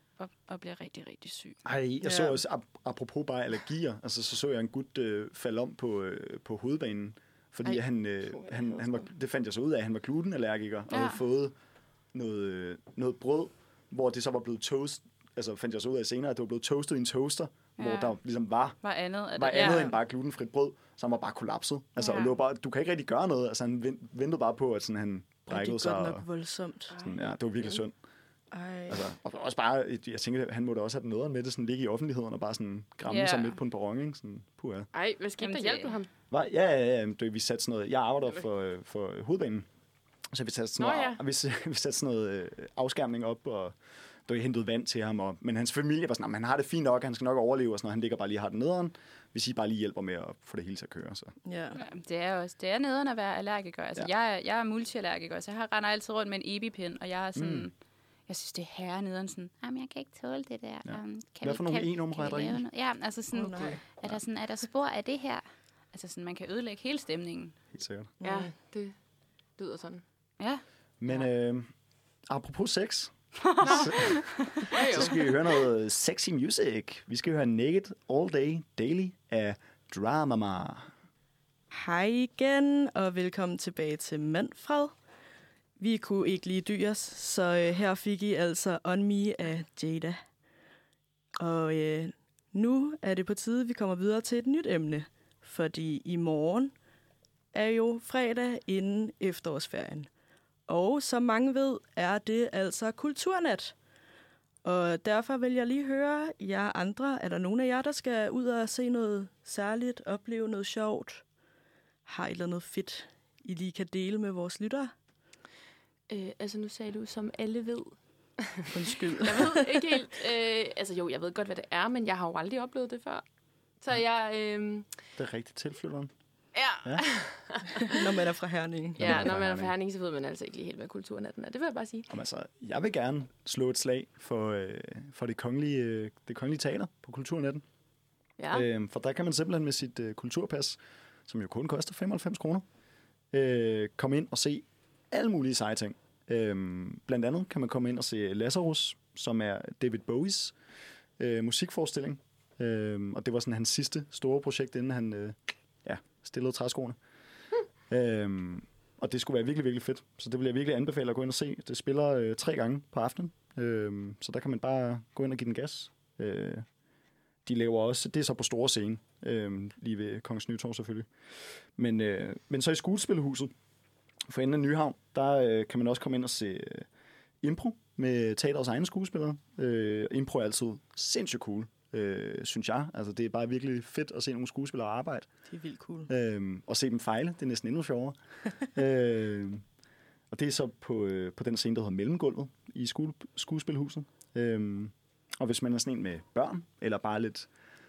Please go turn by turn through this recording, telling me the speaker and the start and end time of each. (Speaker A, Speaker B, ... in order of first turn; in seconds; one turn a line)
Speaker A: 0.2-1.6
Speaker B: 1.6-11.5
Speaker C: 2.0-2.4
Speaker D: 7.6-9.1
Speaker A: 10.9-11.2
Speaker B: 12.1-18.8
Speaker A: 17.8-18.1
Speaker A: 18.8-20.0
Speaker B: 19.3-26.2
Speaker A: 22.0-22.3
Speaker C: 25.5-26.9
Speaker D: 26.9-27.8
Speaker B: 27.0-27.9
Speaker C: 28.5-29.1
Speaker B: 28.9-34.9
Speaker A: 33.1-33.6
Speaker D: 34.9-36.1
Speaker A: 35.4-36.0
Speaker B: 36.3-39.7
Speaker B: 40.3-51.3
Speaker D: 40.8-41.2
Speaker C: 51.4-51.8
Speaker A: 51.8-57.7
Speaker B: 57.4-57.7
Speaker A: 58.3-67.5
Speaker B: 60.8-62.6
Speaker C: 63.3-63.8
Speaker B: 67.7-68.1
Speaker C: 68.2-68.5
Speaker D: 68.2-68.9
Speaker D: 69.6-70.0
Speaker B: 71.0-71.7
Speaker B: 72.3-80.9
Speaker A: 73.4-74.7
Speaker D: 73.6-75.2
Speaker C: 81.7-84.9
Speaker C: 85.8-90.2
Speaker C: 91.4-96.7
Speaker C: 97.5-100.1
Speaker C: 100.7-103.7
Speaker C: 104.6-111.2
Speaker C: 112.0-114.9
Speaker D: 116.1-123.2
Speaker C: 118.7-120.0
Speaker D: 123.8-124.9
Speaker B: 125.2-126.1
Speaker D: 126.5-128.1
Speaker C: 127.8-129.3
Speaker B: 129.0-129.7
Speaker D: 129.0-132.1
Speaker B: 132.1-137.6
Speaker D: 138.4-138.7
Speaker B: 138.5-142.6
Speaker B: 143.3-150.5
Speaker B: 151.2-157.0
Speaker B: 157.9-166.7
Speaker B: 167.4-171.1
Speaker B: 171.8-173.5
Speaker B: 174.3-176.9
Speaker B: 177.4-185.3
Speaker C: 185.5-186.1
Speaker B: 186.1-189.6
Speaker B: 190.3-197.5